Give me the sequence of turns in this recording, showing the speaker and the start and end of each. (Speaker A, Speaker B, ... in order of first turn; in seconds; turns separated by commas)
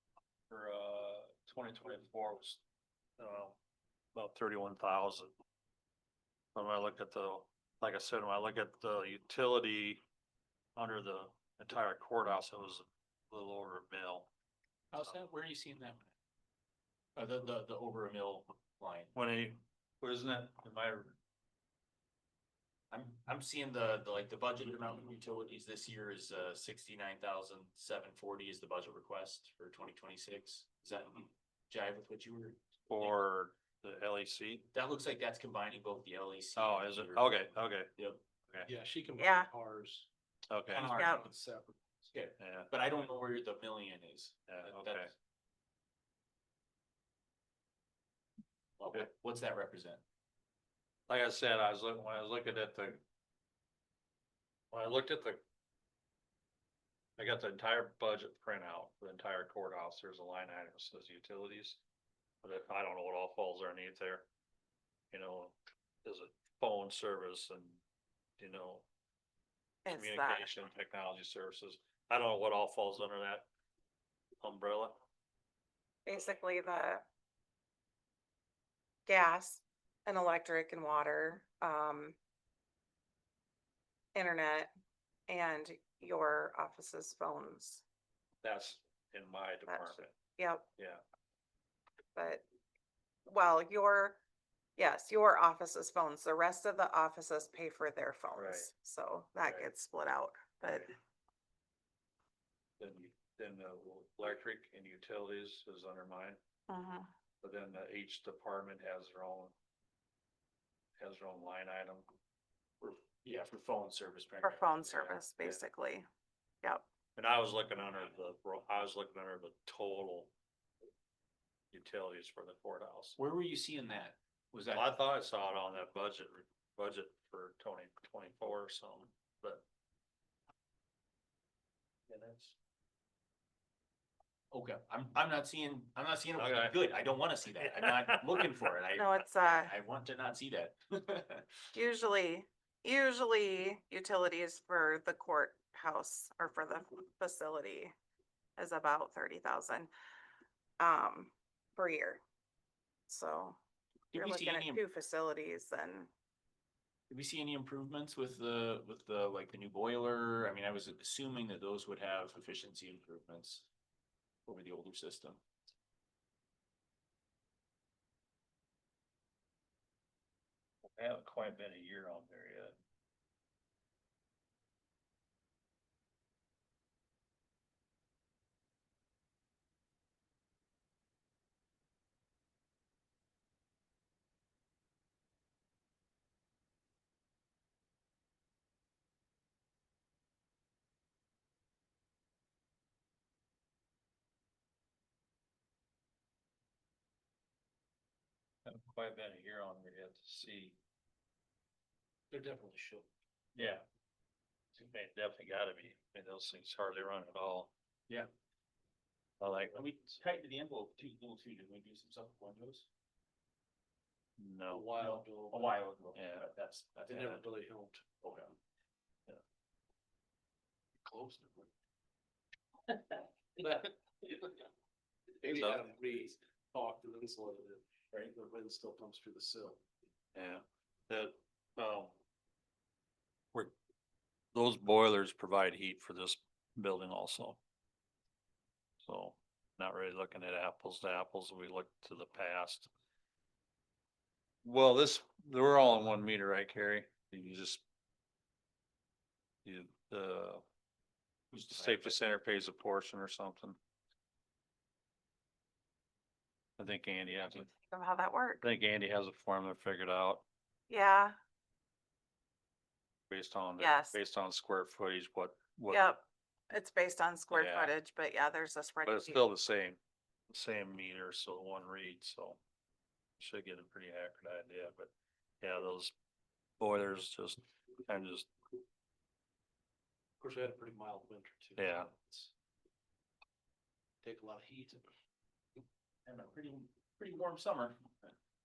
Speaker A: 0.5-2.6, Speaker A: 3.2-3.6, Speaker A: 4.1-5.3, Speaker A: 6.5-10.0, Speaker A: 10.8-14.3, Speaker B: 14.9-16.1, Speaker B: 17.1-19.1, Speaker A: 19.1-21.2, Speaker B: 22.9-33.2, Speaker A: 32.9-34.7, Speaker B: 34.7-37.4, Speaker A: 36.5-37.9, Speaker C: 38.6-40.1, Speaker D: 39.2-39.5, Speaker A: 40.5-41.1, Speaker B: 40.7-41.3, Speaker D: 41.0-41.2, Speaker C: 41.0-42.0, Speaker B: 42.1-45.1, Speaker A: 42.4-42.7, Speaker A: 44.5-45.1, Speaker B: 48.8-50.0, Speaker A: 51.1-53.0, Speaker A: 54.7-55.4, Speaker A: 57.2-61.8, Speaker A: 62.4-64.3, Speaker A: 65.1-67.8, Speaker A: 68.4-68.8, Speaker D: 69.8-70.5, Speaker A: 69.9-73.5, Speaker A: 74.4-75.0, Speaker D: 76.0-77.0, Speaker D: 79.0-82.2, Speaker D: 84.1-84.7, Speaker D: 85.3-87.8, Speaker A: 88.4-90.1, Speaker D: 89.7-90.6, Speaker D: 92.1-92.4, Speaker D: 93.2-94.2, Speaker D: 94.8-100.9, Speaker A: 98.3-98.7, Speaker A: 102.8-106.4, Speaker D: 106.7-107.1, Speaker A: 107.4-109.5, Speaker A: 111.0-112.0, Speaker B: 112.8-115.2, Speaker D: 114.4-116.1, Speaker A: 117.2-120.3, Speaker A: 121.7-123.2, Speaker B: 123.2-124.8, Speaker A: 124.7-129.6, Speaker A: 132.1-132.5, Speaker B: 134.5-141.7, Speaker A: 136.4-136.8, Speaker A: 137.6-138.5, Speaker D: 138.9-139.7, Speaker D: 141.7-147.9, Speaker D: 148.6-149.9, Speaker D: 150.8-152.2, Speaker D: 153.1-153.6, Speaker B: 154.1-154.8, Speaker D: 154.1-156.1, Speaker B: 157.1-163.7, Speaker B: 164.4-165.4, Speaker A: 170.8-172.8, Speaker A: 198.6-200.8, Speaker C: 202.3-203.1, Speaker A: 203.5-203.8, Speaker A: 204.8-207.7, Speaker A: 209.4-209.8, Speaker B: 209.7-212.9, Speaker A: 214.4-214.8, Speaker C: 214.7-215.8, Speaker B: 214.9-217.4, Speaker A: 216.1-216.4, Speaker C: 217.1-218.1, Speaker B: 218.2-218.5, Speaker C: 221.0-221.7, Speaker C: 223.6-224.6, Speaker C: 225.4-229.8, Speaker A: 225.5-225.8, Speaker A: 230.3-232.1, Speaker A: 234.5-237.6, Speaker A: 239.0-242.9, Speaker A: 244.6-247.8, Speaker A: 249.6-250.6, Speaker B: 251.5-252.1, Speaker A: 251.5-253.8, Speaker A: 256.8-257.7, Speaker D: 257.7-258.6, Speaker A: 258.6-260.4, Speaker D: 260.9-261.4, Speaker A: 263.3-266.1, Speaker D: 263.8-264.2, Speaker D: 265.9-269.4, Speaker A: 267.5-267.9, Speaker A: 269.1-270.0, Speaker A: 270.5-272.6, Speaker A: 273.4-276.1, Speaker A: 276.8-278.5, Speaker C: 280.4-282.5, Speaker A: 281.8-282.1, Speaker C: 284.2-285.1, Speaker B: 286.2-288.3